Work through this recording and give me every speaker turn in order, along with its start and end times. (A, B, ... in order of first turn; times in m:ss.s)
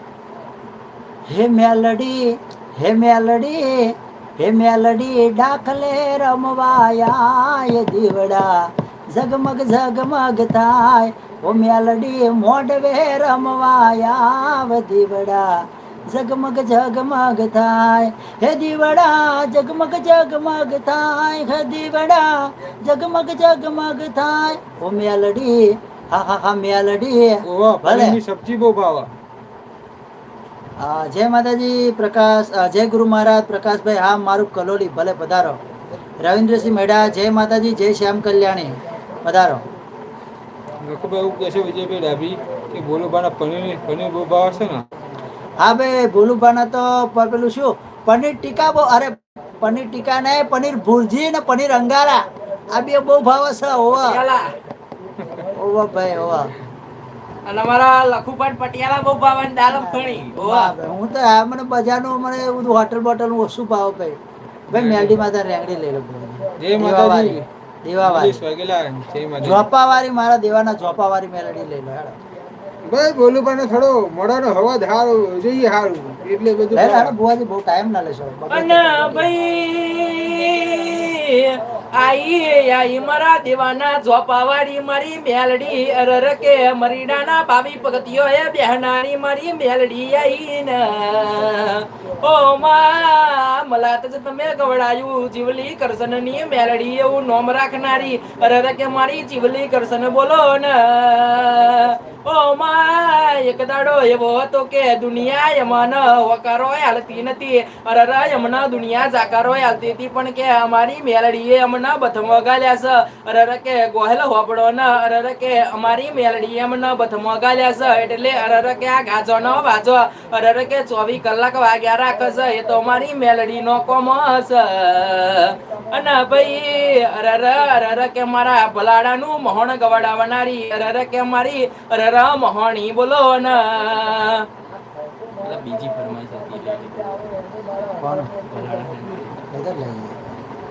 0:01.3-0:28.2 A
0:27.4-0:29.1 B
0:30.8-0:35.6 A
0:36.2-0:39.6 A
0:40.8-0:44.8 B
0:45.6-0:54.2 A
0:54.0-0:54.5 C
0:55.2-0:55.4 B
0:55.5-0:56.5 A
0:57.4-1:00.7 C
0:59.8-1:04.2 A
1:04.7-1:08.4 A
1:04.7-1:05.2 B
1:06.6-1:07.5 B
1:08.0-1:09.7 B
1:09.4-1:12.2 A
1:12.8-1:17.2 B
1:16.7-1:19.3 A
1:18.5-2:14.5 C
2:15.4-2:17.4 C
2:17.9-2:18.3 A
2:18.4-2:19.4 C
2:19.5-2:20.2 A